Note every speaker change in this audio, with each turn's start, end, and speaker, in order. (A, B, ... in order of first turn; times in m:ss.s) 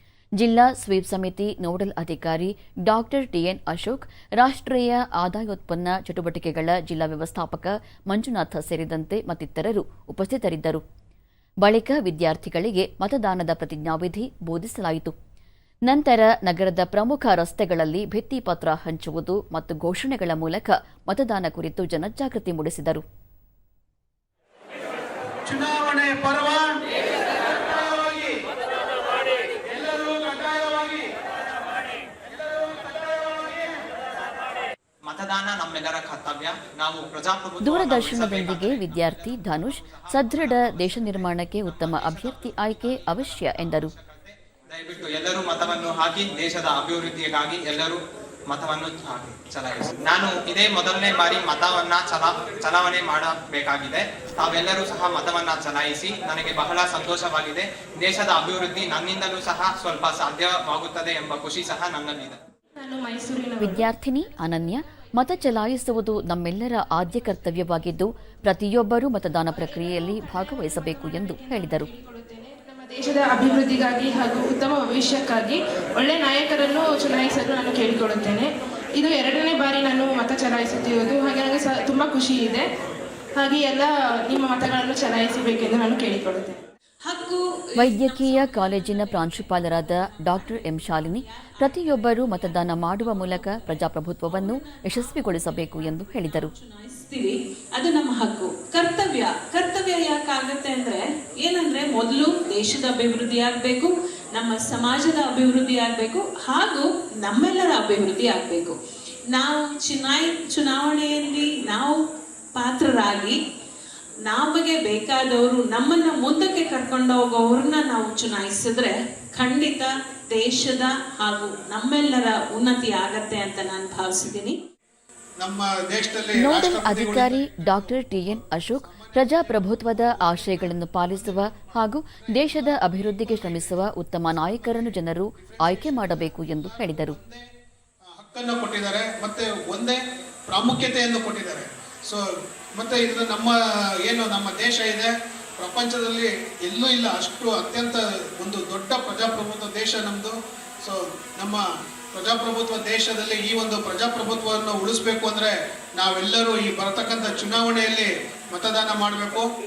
0:00.4-0:10.8 A
0:11.6-0:15.1 A
0:15.9-0:23.0 A
0:25.4-0:26.7 B
0:27.3-0:28.4 B
0:29.6-0:31.1 B
0:32.3-0:33.8 B
0:35.0-1:02.4 C
0:37.6-0:43.9 A
1:02.8-1:03.9 D
1:03.6-1:11.9 A
1:09.5-1:22.7 D
1:23.4-1:26.6 D
1:27.0-1:48.8 E
1:27.8-1:36.5 A
1:49.3-1:52.0 E
1:52.6-1:53.4 E
1:54.2-2:04.5 E
2:05.4-2:17.4 B
2:06.4-2:17.2 A
2:18.1-2:22.2 B
2:22.7-2:39.5 B